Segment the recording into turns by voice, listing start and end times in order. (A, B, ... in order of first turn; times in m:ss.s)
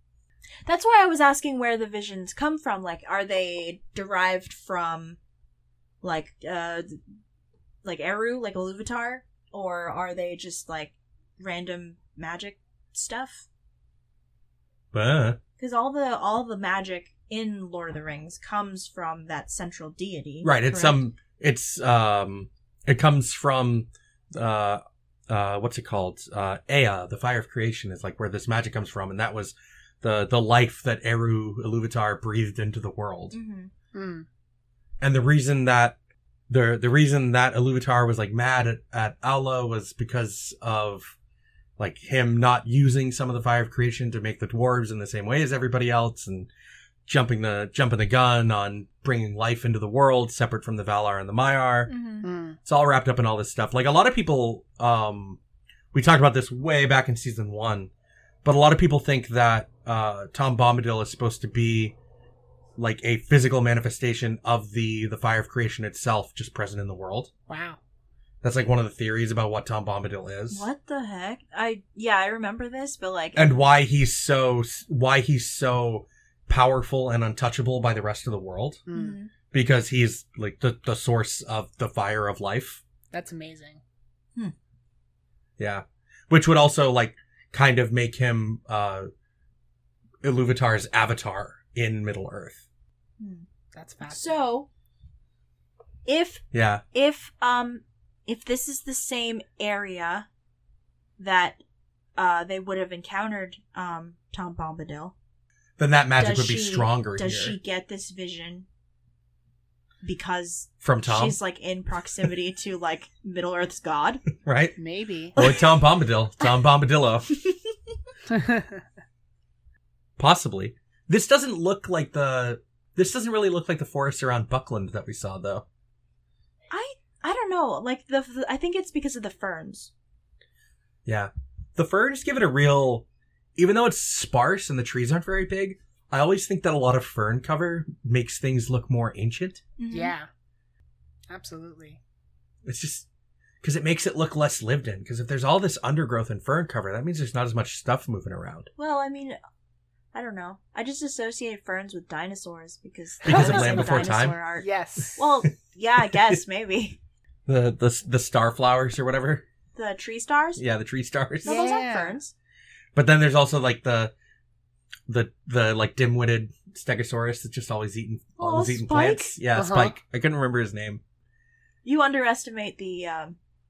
0:00.6-0:05.2 A
0:06.0-0:07.0 A
0:07.8-0:13.5 A
0:14.9-0:15.4 B
0:15.6-0:21.0 A
0:20.4-0:33.4 B
0:33.3-0:33.7 A
0:33.9-0:34.2 C
0:35.0-0:36.0 B
0:36.5-0:41.2 B
0:41.8-0:46.5 B
0:47.0-0:51.9 B
0:51.9-0:52.3 A
0:52.2-0:52.6 C
0:52.6-0:55.4 B
0:55.9-0:57.9 B
0:58.4-1:02.0 B
1:02.8-1:07.3 B
1:07.5-1:07.8 C
1:08.4-1:10.7 B
1:10.5-1:13.6 A
1:13.3-1:18.8 B
1:18.9-1:19.2 C
1:18.9-1:19.3 A
1:19.5-1:22.8 B
1:23.1-1:23.8 C
1:25.6-1:29.1 B
1:30.2-1:32.6 B
1:33.2-1:33.4 A
1:33.7-1:34.4 C
1:34.1-1:34.7 A
1:36.0-1:40.3 A
1:36.5-1:36.8 B
1:41.2-1:41.6 A
1:42.2-1:45.1 A
1:45.8-1:47.6 B
1:46.2-1:48.6 A
1:50.0-1:54.2 A
1:50.8-1:51.4 B
1:54.4-1:54.8 B
1:54.8-1:55.3 C
1:55.4-1:55.8 A
1:55.4-1:57.3 B
1:58.3-1:58.8 C
2:00.2-2:05.6 B
2:06.7-2:09.9 A
2:11.0-2:13.0 B
2:13.6-2:19.6 B
2:19.8-2:20.1 A
2:19.9-2:20.3 C
2:21.3-2:22.0 C
2:22.6-2:23.1 B
2:23.6-2:28.7 B
2:28.8-2:29.4 A
2:30.1-2:37.0 A
2:33.2-2:34.4 B
2:33.2-2:35.2 C
2:36.0-2:36.4 B
2:37.4-2:39.4 B
2:39.7-2:40.6 A
2:40.6-2:41.6 B
2:41.4-2:42.3 A
2:41.4-2:42.2 C
2:42.9-2:44.1 B
2:45.1-2:51.0 B
2:48.4-2:49.4 A
2:49.5-2:49.9 C
2:51.8-2:53.4 A